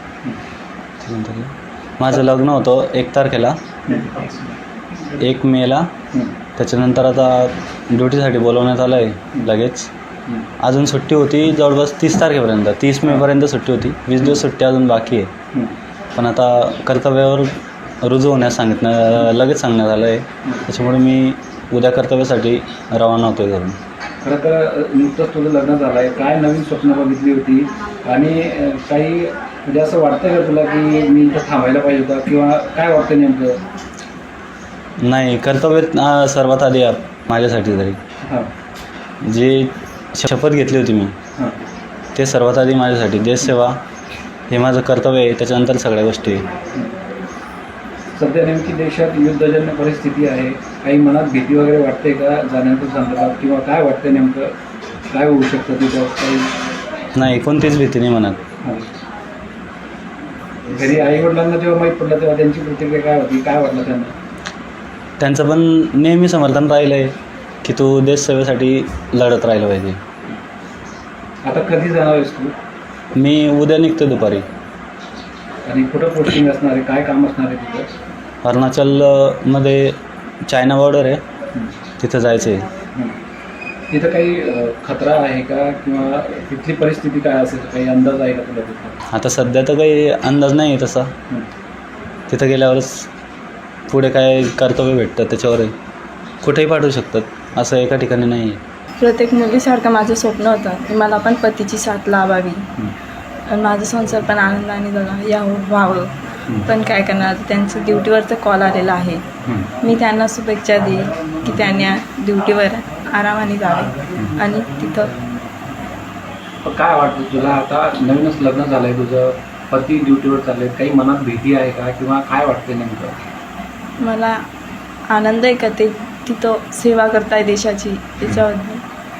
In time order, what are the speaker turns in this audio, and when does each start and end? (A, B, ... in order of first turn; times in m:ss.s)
0:01.0-0:03.6 A
0:03.8-0:04.2 B
0:05.2-0:05.9 A
0:06.6-0:09.9 A
0:10.6-0:15.3 A
0:16.1-0:23.8 A
0:24.2-0:33.6 B
0:35.0-0:38.0 A
0:39.2-0:41.2 A
0:42.1-0:43.8 A
0:44.5-0:46.5 A
0:48.2-0:54.5 B
0:55.1-0:56.5 B
0:57.1-0:58.4 A
1:00.6-1:04.1 B
1:05.2-1:10.0 A
1:11.4-1:12.5 B
1:13.2-1:14.4 A
1:15.6-1:17.9 B
1:18.4-1:21.2 A
1:22.0-1:22.7 A
1:23.9-1:29.0 B
1:29.1-1:31.1 A
1:32.3-1:33.1 A
1:33.9-1:35.7 A
1:36.4-1:38.6 A
1:39.0-1:42.7 C
1:43.4-1:49.2 C
1:49.4-1:49.7 B
1:49.8-1:55.1 C
1:56.6-2:03.2 B
2:04.0-2:04.5 C
2:05.1-2:08.8 C